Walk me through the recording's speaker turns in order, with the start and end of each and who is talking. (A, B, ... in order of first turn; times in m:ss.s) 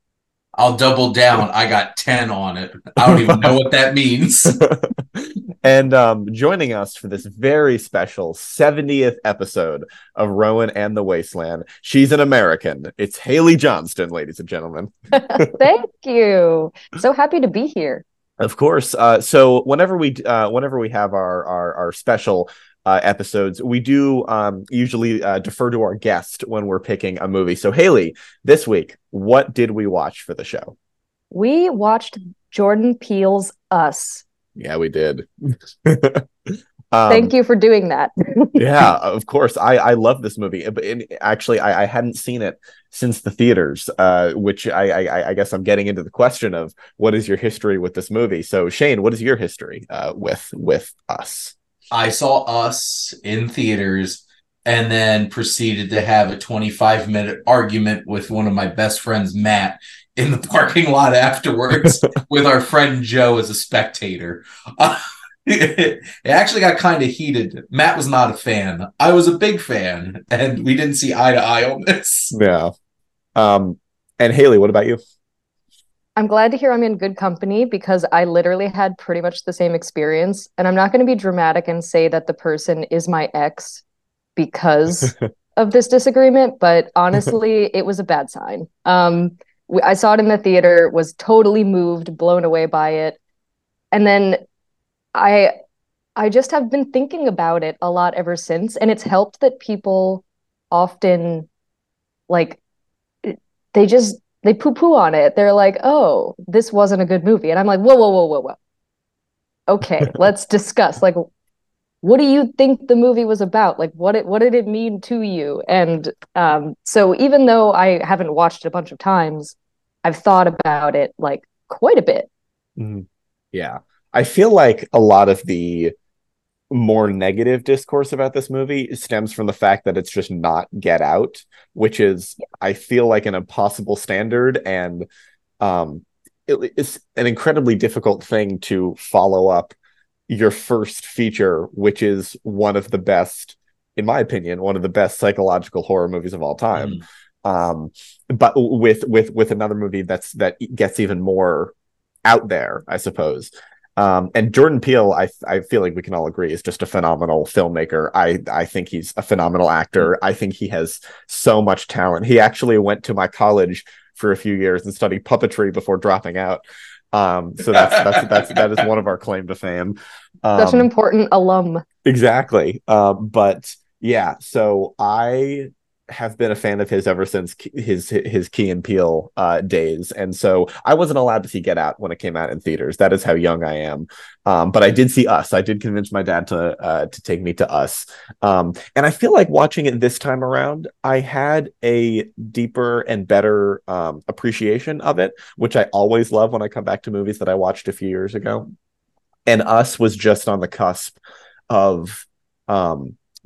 0:00.6-0:04.6 A
0:03.0-0:03.5 B
0:04.5-0:15.6 B
0:15.2-0:18.0 C
0:18.4-0:30.8 B
0:31.3-0:34.2 C
0:34.6-0:37.3 B
0:37.1-0:38.9 C
0:38.6-0:51.5 B
0:51.9-1:12.4 A
1:12.3-1:12.7 B
1:13.4-1:15.0 B
1:16.2-1:23.8 C
1:24.4-1:33.2 C
1:33.9-1:34.4 C
1:35.2-1:35.6 C
1:36.2-1:41.5 C
1:42.3-1:42.6 C
1:43.2-1:48.6 C
1:49.7-1:51.2 C
1:52.0-2:02.3 C
2:02.8-2:05.9 B
2:06.7-2:15.1 B
2:15.6-2:19.7 B
2:20.3-2:31.7 B
2:26.8-2:27.0 A
2:32.3-2:50.9 B
2:47.8-2:48.6 A
2:50.6-2:51.8 C
2:52.0-3:18.7 B
3:19.5-3:21.2 B
3:21.7-3:23.2 B